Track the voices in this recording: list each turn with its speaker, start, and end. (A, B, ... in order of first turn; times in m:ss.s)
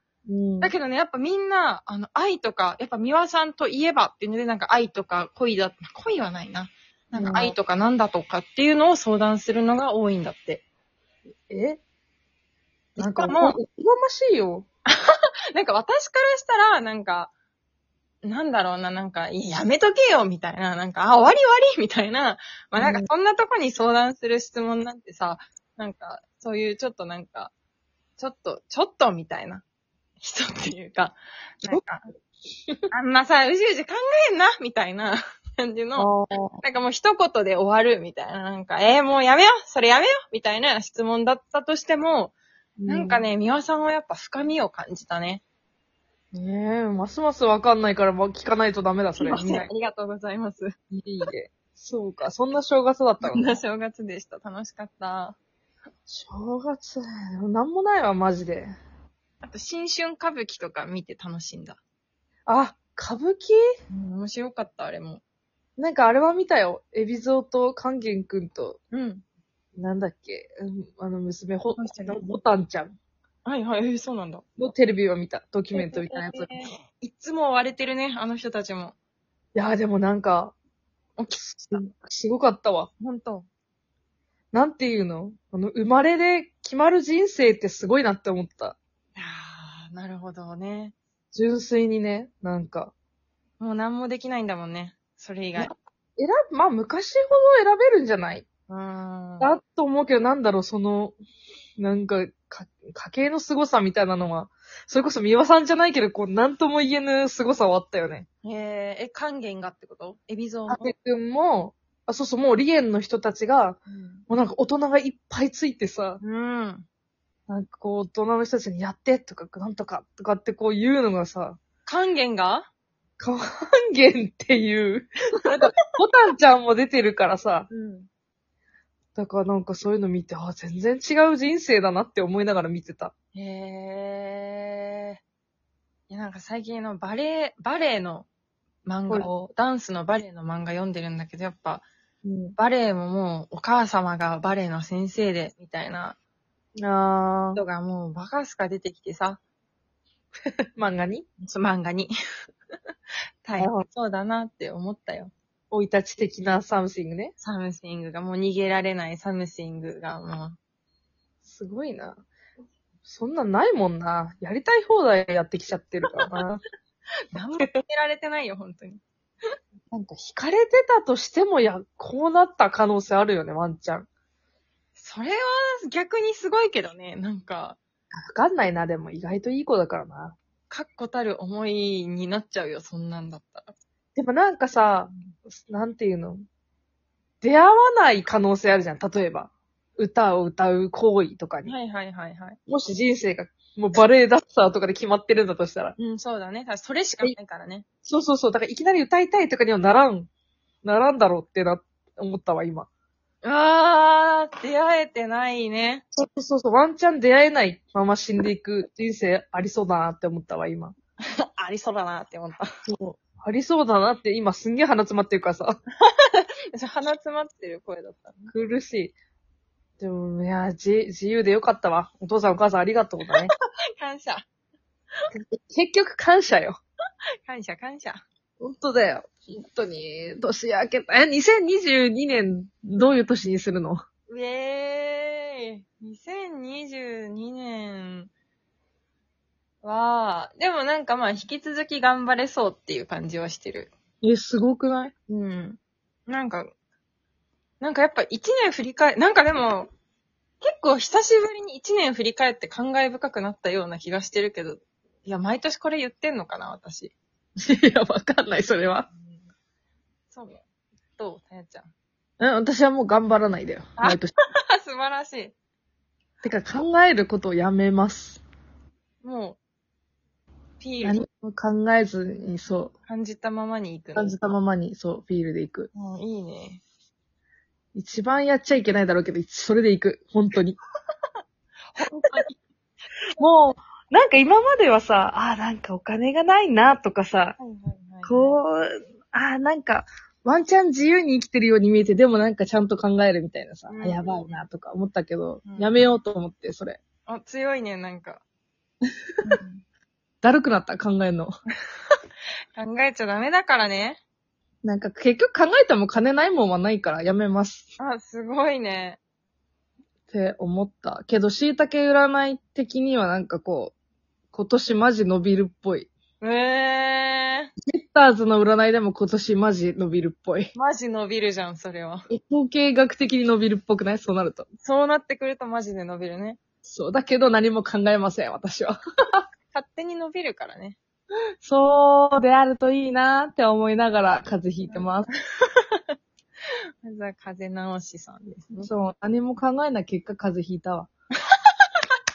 0:00.3-0:00.7 A
0:00.6-0:10.6 B
0:07.1-0:07.6 A
0:11.5-0:11.8 A
0:13.0-0:13.6 B
0:13.0-0:14.7 A
0:14.9-0:17.3 B
0:18.2-0:27.5 B
0:22.8-0:23.1 A
0:28.2-0:29.6 B
0:30.2-0:32.1 B
0:32.9-0:36.1 B
0:36.0-0:36.6 A
0:36.6-0:42.4 B
0:42.8-0:43.2 A
0:42.9-0:45.4 B
0:46.3-0:49.7 A
0:49.2-0:50.7 B
0:50.9-0:53.5 A
0:53.2-0:55.4 B
0:56.1-0:58.8 A
0:59.4-1:01.8 B
1:02.5-1:03.6 A
1:03.9-1:05.2 B
1:05.8-1:08.8 A
1:08.9-1:09.2 B
1:09.8-1:13.0 A
1:11.8-1:12.2 B
1:13.4-1:14.4 B
1:14.6-1:16.6 A
1:15.8-1:19.0 B
1:19.6-1:20.5 A
1:21.2-1:21.9 B
1:21.7-1:22.9 A
1:23.0-1:23.5 B
1:24.5-1:28.8 A
1:29.2-1:31.0 B
1:31.3-1:32.9 A
1:33.6-1:35.7 B
1:35.6-1:38.5 A
1:38.7-1:39.5 B
1:39.4-1:41.2 A
1:41.8-1:48.3 A
1:48.4-1:50.9 B
1:50.7-1:56.2 A
1:53.9-1:54.2 B
1:56.2-1:56.9 B
1:57.5-2:01.6 A
2:01.9-2:02.7 B
2:03.2-2:07.7 A
2:07.7-2:08.1 B
2:09.2-2:13.1 A
2:13.4-2:15.2 B
2:16.1-2:18.3 B
2:18.8-2:21.8 B
2:19.1-2:19.5 A
2:22.2-2:22.6 A
2:22.6-2:26.2 B
2:26.8-2:27.6 A
2:27.6-2:29.4 B
2:30.8-2:31.3 A
2:31.4-2:32.1 B
2:33.4-2:35.3 B
2:33.6-2:33.8 A
2:35.7-2:37.3 A
2:37.4-2:40.6 B
2:41.4-2:42.2 A
2:43.0-2:46.6 A
2:47.3-2:49.0 B
2:49.9-2:54.1 A
2:55.0-2:57.8 B
2:58.2-3:00.4 A
3:00.7-3:03.7 B
3:04.2-3:06.4 A
3:05.1-3:05.3 B
3:07.4-3:11.8 A
3:11.6-3:12.6 B
3:12.7-3:16.0 A
3:16.0-3:17.8 B
3:18.0-3:20.3 A
3:20.8-3:22.9 A
3:23.4-3:26.0 B
3:26.2-3:31.0 A
3:31.3-3:32.7 B
3:32.9-3:35.8 A
3:36.0-3:38.5 B
3:38.5-3:39.2 A
3:40.0-3:43.5 A
3:43.4-3:44.5 B
3:45.3-3:46.8 A
3:47.5-3:48.2 B
3:48.6-3:54.0 A
3:54.3-3:58.3 B
3:59.8-4:03.9 B
4:04.2-4:05.1 A
4:05.3-4:06.7 B
4:07.8-4:09.9 B
4:10.6-4:17.1 B
4:17.6-4:19.1 A
4:19.1-4:19.4 B
4:20.3-4:20.6 B
4:21.2-4:21.9 B
4:22.4-4:24.3 A
4:24.0-4:25.5 B
4:26.4-4:28.4 A
4:29.2-4:29.6 B
4:30.8-4:31.2 B
4:31.0-4:32.9 A
4:33.1-4:34.4 B
4:34.2-4:35.9 A
4:35.9-4:36.8 B
4:38.0-4:40.8 A
4:42.0-4:42.6 B
4:43.4-4:47.6 A
4:47.6-4:48.6 B
4:48.2-4:57.0 A
4:53.9-4:54.4 B
4:55.6-4:56.0 B
4:57.3-4:58.4 B
4:59.4-4:59.8 B
5:00.4-5:01.5 A
5:02.8-5:04.2 B
5:04.8-5:07.9 A
5:08.0-5:09.2 B
5:10.3-5:13.9 A
5:14.5-5:16.1 A
5:16.4-5:17.7 B
5:17.9-5:20.7 A
5:20.8-5:22.3 B
5:22.3-5:24.7 A
5:24.8-5:26.6 B
5:26.9-5:29.4 A
5:29.7-5:31.0 B
5:31.6-5:35.3 A
5:34.8-5:36.1 B
5:37.0-5:38.9 B
5:38.8-5:41.1 A